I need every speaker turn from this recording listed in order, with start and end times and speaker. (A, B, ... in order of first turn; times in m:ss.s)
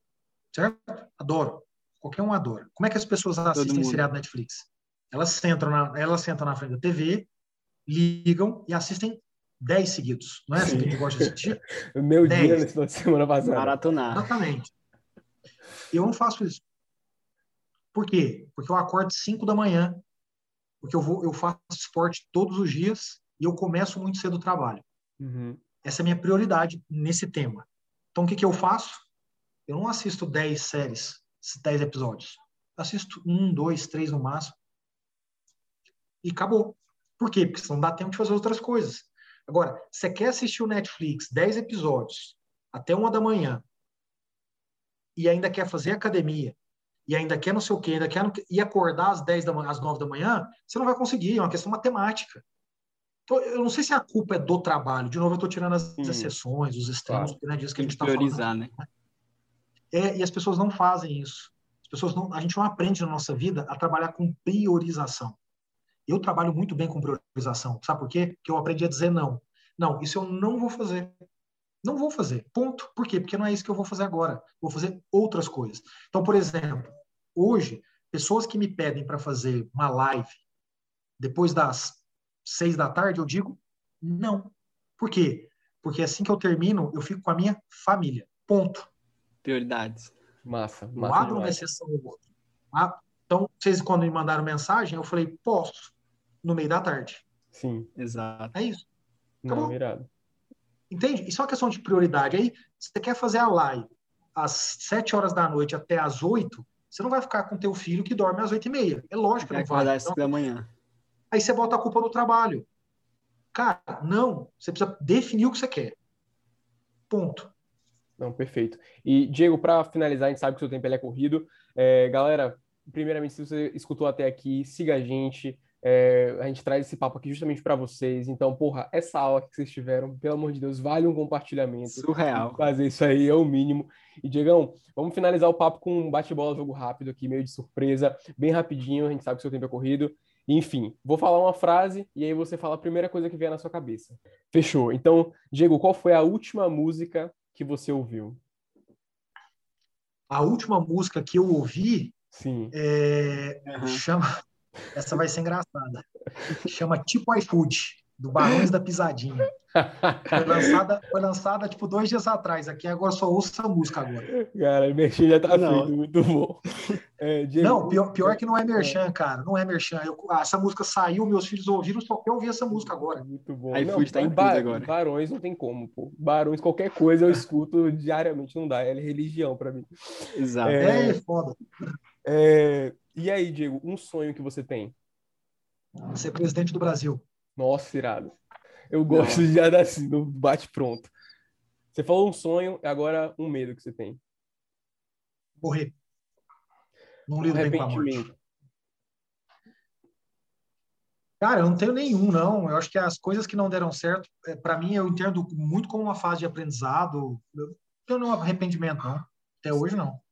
0:00.5-0:07.3 A
0:03.5-0:04.0 B
0:07.9-0:11.6 A
0:10.6-0:13.8 C
0:10.6-0:10.9 B
0:12.2-0:12.6 A
0:13.4-0:14.3 B
0:14.1-0:14.7 A
0:15.9-0:16.6 A
0:17.9-0:20.0 A
0:20.8-0:24.8 A
0:25.2-0:25.6 C
0:25.8-0:29.1 A
0:29.7-0:34.6 A
0:36.2-0:43.6 A
0:45.2-0:52.4 A
0:53.3-0:58.5 A
0:56.0-0:56.3 C
0:57.1-0:57.4 C
0:57.8-0:58.7 B
0:59.9-1:05.4 A
1:06.1-1:11.2 A
1:11.8-1:20.4 A
1:21.2-1:28.9 A
1:29.4-1:30.1 B
1:30.4-1:31.6 C
1:31.0-1:37.2 A
1:37.5-1:37.9 C
1:38.0-1:38.5 B
1:38.5-1:38.8 A
1:39.4-1:40.1 C
1:39.5-1:39.8 A
1:40.9-1:50.2 A
1:49.4-1:50.7 B
1:51.3-1:52.7 A
1:53.5-1:56.0 A
1:57.1-1:57.5 A
1:58.2-2:28.4 C
2:11.9-2:12.7 B
2:30.3-2:32.1 A
2:32.3-2:32.7 C
2:32.7-2:34.3 A
2:33.6-2:34.0 B
2:34.9-2:36.1 A
2:36.6-2:39.5 A
2:39.7-2:40.8 C
2:40.3-2:44.3 A
2:44.3-2:46.6 C
2:45.5-2:45.9 B
2:47.2-2:49.0 C
2:47.6-2:53.2 A
2:52.7-3:01.2 C
2:53.7-2:54.9 B
3:00.4-3:00.8 B
3:00.8-3:01.6 A
3:02.2-3:05.0 C
3:06.1-3:07.2 A
3:07.6-3:08.3 C
3:08.9-3:11.1 C
3:09.1-3:09.5 B
3:11.9-3:14.2 C
3:15.6-3:15.9 A
3:17.3-3:18.3 A
3:17.4-3:18.3 C
3:21.4-3:30.2 A